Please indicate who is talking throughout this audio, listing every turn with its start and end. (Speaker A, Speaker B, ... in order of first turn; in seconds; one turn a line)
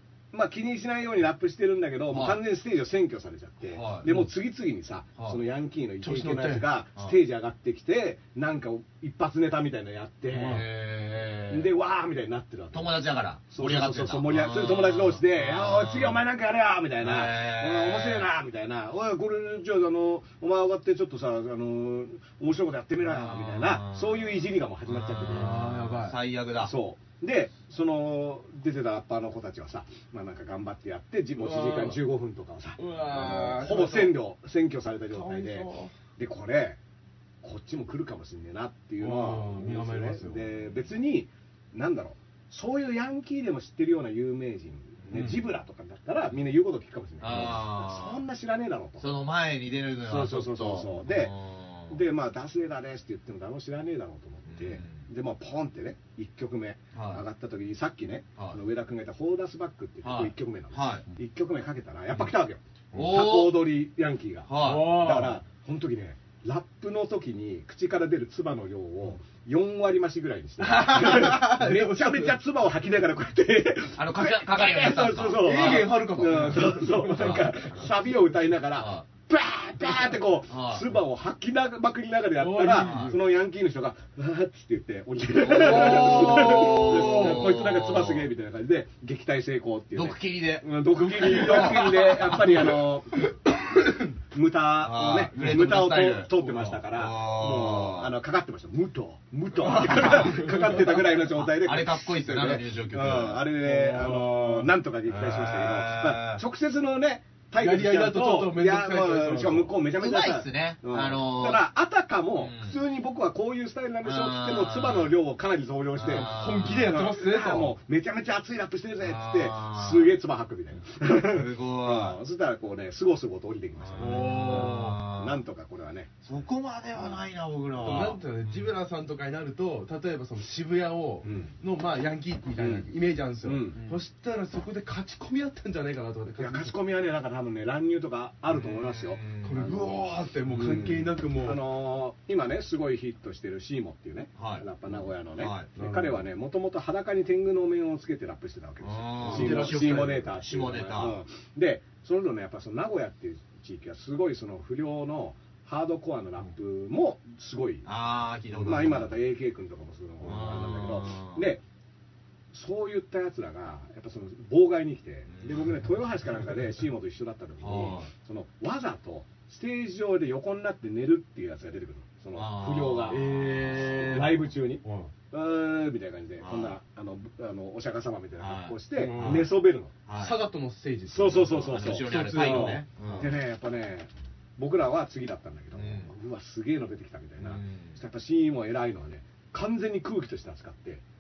Speaker A: 0.3-10.7
Speaker B: 2.1-2.4
Speaker B: 3.7-4.1
Speaker C: 6.0-6.7
Speaker C: 10.3-10.7
Speaker B: 10.4-11.7
Speaker A: 11.5-25.6
Speaker B: 12.7-16.2
Speaker B: 17.0-18.3
Speaker B: 23.0-26.8
Speaker C: 25.3-26.2
Speaker A: 26.6-36.8
Speaker C: 31.4-32.0
Speaker C: 32.8-34.2
Speaker C: 35.1-35.9
Speaker A: 37.4-49.1
Speaker C: 39.0-40.5
Speaker C: 45.1-45.4
Speaker B: 47.2-48.2
Speaker B: 49.0-52.0
Speaker A: 50.0-51.4
Speaker A: 51.9-93.2
Speaker B: 54.5-55.1
Speaker B: 56.9-57.2
Speaker B: 60.0-61.0
Speaker B: 62.9-63.7
Speaker B: 64.5-65.1
Speaker C: 64.6-65.4
Speaker C: 70.6-72.4
Speaker B: 74.0-78.0
Speaker C: 75.4-77.5
Speaker B: 78.8-79.1
Speaker B: 79.8-81.0
Speaker C: 82.3-83.2
Speaker B: 82.7-83.2
Speaker B: 85.4-88.3
Speaker C: 85.6-87.4
Speaker B: 89.9-92.8
Speaker A: 94.3-126.4
Speaker B: 94.8-98.1
Speaker C: 96.4-96.8
Speaker B: 99.6-103.5
Speaker C: 100.0-100.6
Speaker C: 103.6-104.7
Speaker B: 105.1-106.4
Speaker C: 107.6-109.8
Speaker B: 109.9-111.7
Speaker B: 112.4-112.8
Speaker B: 114.0-115.2
Speaker B: 116.0-117.0
Speaker C: 116.1-117.8
Speaker B: 119.0-120.2
Speaker B: 121.1-122.2
Speaker B: 123.8-125.4
Speaker C: 124.0-125.0
Speaker B: 126.2-128.7
Speaker C: 127.8-136.8
Speaker A: 131.2-131.5
Speaker A: 132.6-132.9
Speaker A: 133.4-133.9
Speaker A: 136.4-157.9
Speaker B: 138.5-139.8
Speaker C: 139.4-141.6
Speaker B: 144.4-145.7
Speaker C: 145.8-146.2
Speaker B: 148.8-151.2
Speaker C: 149.2-150.2
Speaker B: 157.8-159.2
Speaker A: 158.5-161.6
Speaker B: 160.2-161.5
Speaker A: 162.5-179.9
Speaker B: 165.3-165.7
Speaker B: 167.6-168.1
Speaker B: 172.3-174.3
Speaker C: 173.1-175.1
Speaker B: 176.4-176.8
Speaker B: 178.4-179.5
Speaker C: 178.9-179.5
Speaker B: 180.1-180.4
Speaker C: 180.2-182.8
Speaker A: 181.1-191.0
Speaker B: 181.5-183.3
Speaker B: 185.8-186.1
Speaker B: 187.4-188.0